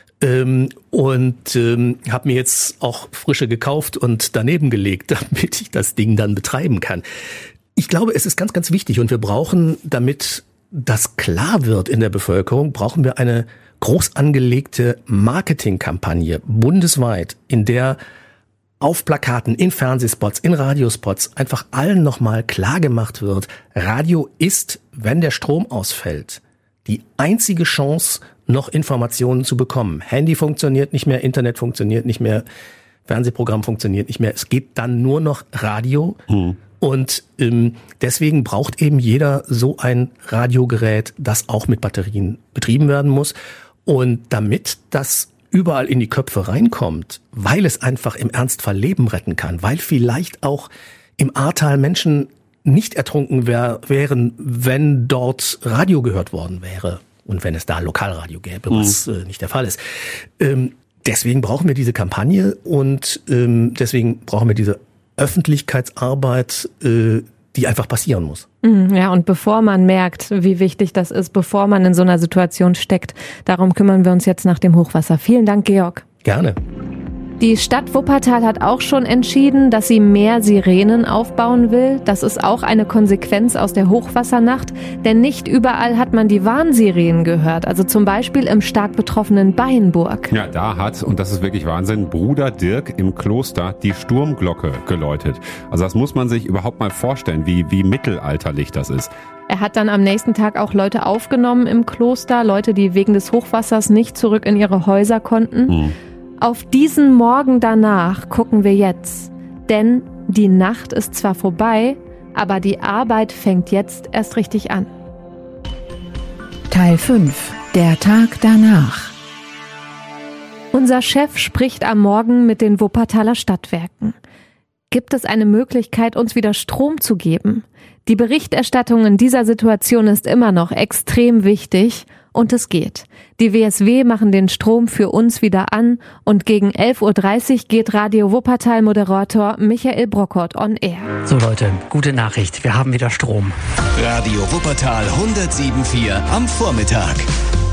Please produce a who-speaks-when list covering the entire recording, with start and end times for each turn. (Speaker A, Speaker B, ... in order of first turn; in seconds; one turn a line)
Speaker A: 0.2-7.0
Speaker A: 7.8-18.0
Speaker A: 18.8-32.4
Speaker A: 33.0-36.2
Speaker B: 36.3-36.6
Speaker A: 36.7-59.8
Speaker B: 58.7-59.0
Speaker A: 60.4-68.5
Speaker C: 68.6-76.0
Speaker A: 76.2-76.6
Speaker C: 77.4-90.3
Speaker B: 90.3-99.1
Speaker C: 99.5-105.8
Speaker B: 105.7-106.0
Speaker C: 106.4-114.9
Speaker D: 116.7-119.1
Speaker C: 120.7-124.2
Speaker C: 124.9-141.1
Speaker E: 141.2-143.6
Speaker F: 144.0-147.2